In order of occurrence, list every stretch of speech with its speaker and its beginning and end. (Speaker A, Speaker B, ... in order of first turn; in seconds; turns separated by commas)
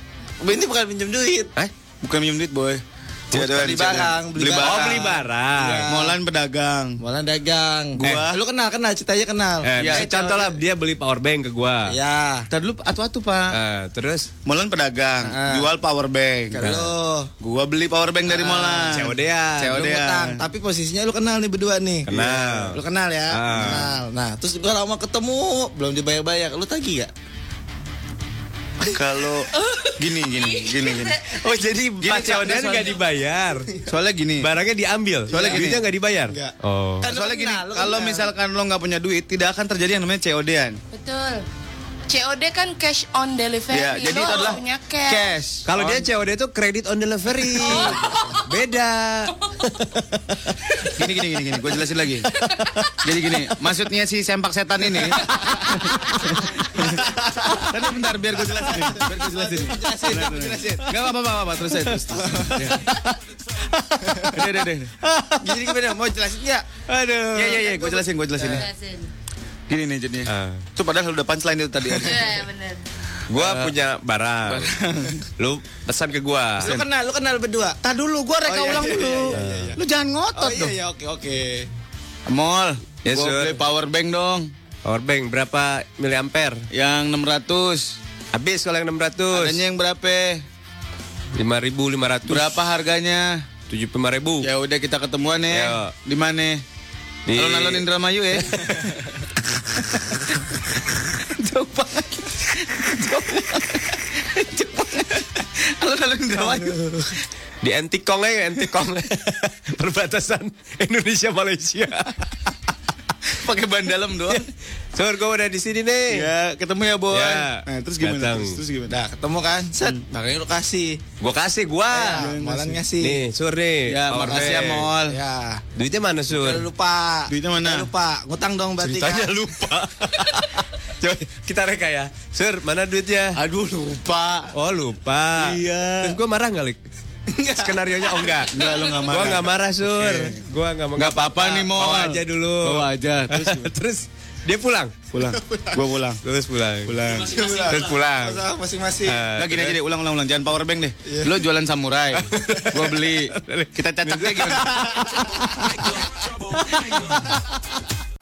Speaker A: 0.4-1.5, Speaker B: 2.0-2.8, Speaker C: 3.3-5.9, Speaker B: 3.3-5.1, Speaker A: 3.3-6.2, Speaker B: 5.9-7.0, Speaker A: 7.0-10.6, Speaker B: 8.0-8.3, Speaker C: 8.0-8.3, Speaker C: 9.6-11.9, Speaker B: 9.8-10.1, Speaker A: 11.9-12.5, Speaker B: 12.5-13.6, Speaker C: 13.5-14.3, Speaker B: 14.4-16.8, Speaker A: 15.2-15.7, Speaker C: 16.5-16.9, Speaker A: 16.6-17.3, Speaker B: 17.4-20.4, Speaker A: 18.3-19.0, Speaker C: 18.9-19.6, Speaker A: 19.6-22.1, Speaker C: 22.1-22.8, Speaker B: 22.1-24.1, Speaker C: 23.3-23.9, Speaker A: 23.7-27.1, Speaker B: 28.9-31.2, Speaker D: 30.4-31.1, Speaker C: 31.3-33.7, Speaker B: 32.0-32.9, Speaker B: 33.9-34.5, Speaker C: 34.4-37.0, Speaker A: 35.3-38.3, Speaker B: 35.3-35.8, Speaker B: 37.1-40.8, Speaker D: 40.9-41.4, Speaker D: 42.1-45.4, Speaker B: 43.7-44.6, Speaker A: 45.1-45.6, Speaker C: 45.6-50.4, Speaker B: 45.7-46.0, Speaker D: 47.7-48.4, Speaker B: 51.0-52.3, Speaker B: 53.0-56.9, Speaker A: 56.8-57.3, Speaker B: 57.6-63.0, Speaker A: 58.4-61.0, Speaker A: 61.7-62.6, Speaker C: 62.5-62.8, Speaker B: 64.2-65.0, Speaker A: 65.4-66.8, Speaker C: 66.9-67.6, Speaker B: 67.3-68.7, Speaker A: 67.4-68.6, Speaker D: 68.5-69.1, Speaker B: 69.7-72.3, Speaker C: 70.3-70.7, Speaker D: 72.0-72.8, Speaker C: 73.3-74.7, Speaker B: 73.4-73.7, Speaker B: 74.5-75.2, Speaker C: 75.4-76.8, Speaker A: 76.6-77.8, Speaker B: 77.8-80.8, Speaker A: 78.4-79.8, Speaker C: 79.3-79.8, Speaker A: 80.3-81.7, Speaker B: 82.3-84.5, Speaker C: 83.0-83.6, Speaker C: 84.8-86.6, Speaker B: 86.7-88.0, Speaker C: 88.3-89.7, Speaker B: 89.3-90.5, Speaker C: 91.4-92.5, Speaker B: 92.3-93.4, Speaker C: 93.7-94.5, Speaker B: 94.4-96.6, Speaker C: 95.5-95.9, Speaker C: 97.3-97.9, Speaker B: 97.3-98.9, Speaker B: 99.8-100.4, Speaker B: 101.2-106.8, Speaker C: 106.4-107.0, Speaker C: 107.6-112.5, Speaker B: 113.3-114.5, Speaker C: 114.3-116.3, Speaker B: 116.1-118.9, Speaker C: 117.1-118.6, Speaker A: 118.9-121.0, Speaker C: 121.2-122.2, Speaker A: 121.8-123.2, Speaker B: 121.9-122.8, Speaker C: 123.0-124.9, Speaker B: 123.9-125.2, Speaker A: 124.1-125.6, Speaker C: 125.8-126.7, Speaker A: 126.3-129.3, Speaker B: 127.3-127.9, Speaker C: 128.8-130.4, Speaker C: 131.0-133.4, Speaker B: 133.4-134.5, Speaker C: 134.5-136.8, Speaker B: 135.4-136.2, Speaker C: 137.5-144.9, Speaker B: 138.5-140.4, Speaker B: 141.0-143.7, Speaker B: 145.1-146.2, Speaker C: 146.2-148.4, Speaker B: 146.8-147.7, Speaker A: 147.3-149.2, Speaker C: 149.1-149.8, Speaker B: 149.4-155.2, Speaker C: 152.3-155.9, Speaker C: 156.8-157.2